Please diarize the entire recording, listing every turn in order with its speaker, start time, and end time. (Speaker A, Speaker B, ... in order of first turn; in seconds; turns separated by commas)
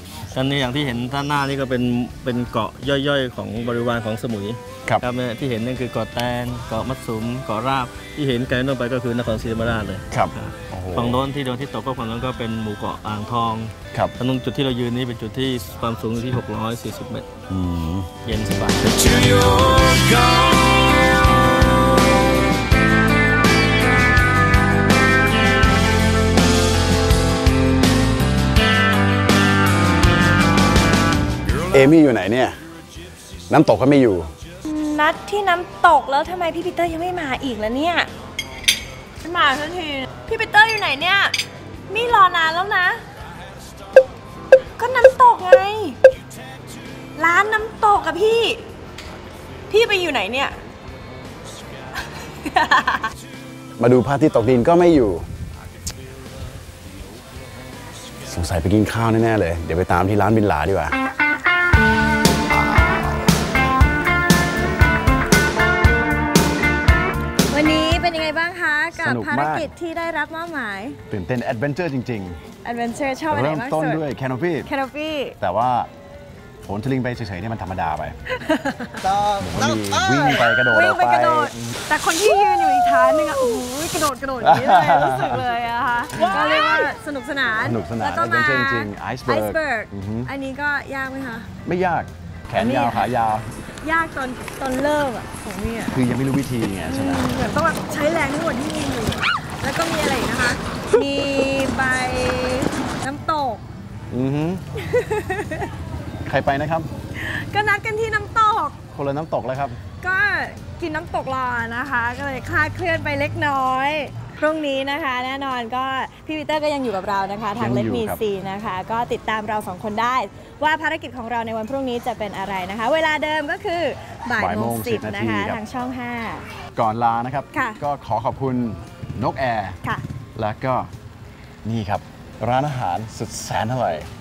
Speaker A: 0.3-17.3, Speaker B: 10.1-11.2, Speaker B: 17.5-18.1, Speaker A: 18.2-20.2, Speaker B: 31.6-32.5, Speaker B: 33.5-34.3, Speaker C: 34.6-38.1, Speaker C: 39.2-41.3, Speaker C: 41.9-43.0, Speaker C: 44.8-46.0, Speaker C: 47.1-48.6, Speaker C: 49.7-50.5, Speaker C: 52.4-53.1, Speaker B: 53.8-55.3, Speaker B: 58.2-61.0, Speaker C: 67.5-71.0, Speaker B: 68.9-69.7, Speaker B: 71.1-72.4, Speaker C: 72.6-74.0, Speaker B: 73.3-74.7, Speaker C: 74.7-75.3, Speaker B: 75.4-75.9, Speaker B: 76.6-78.2, Speaker C: 78.3-91.5, Speaker B: 79.4-81.8, Speaker B: 84.4-85.4, Speaker B: 86.1-86.7, Speaker B: 87.6-90.3, Speaker B: 91.6-93.5, Speaker C: 92.5-93.1, Speaker C: 93.8-96.0, Speaker B: 95.9-97.4, Speaker C: 96.8-103.6, Speaker B: 104.1-104.6, Speaker C: 104.8-105.7, Speaker B: 106.2-106.9, Speaker C: 107.2-108.8, Speaker B: 108.9-109.8, Speaker C: 110.0-126.4, Speaker B: 117.6-118.2, Speaker B: 124.3-125.6, Speaker B: 126.8-129.8, Speaker C: 127.5-127.8, Speaker B: 130.3-130.9, Speaker B: 131.6-134.1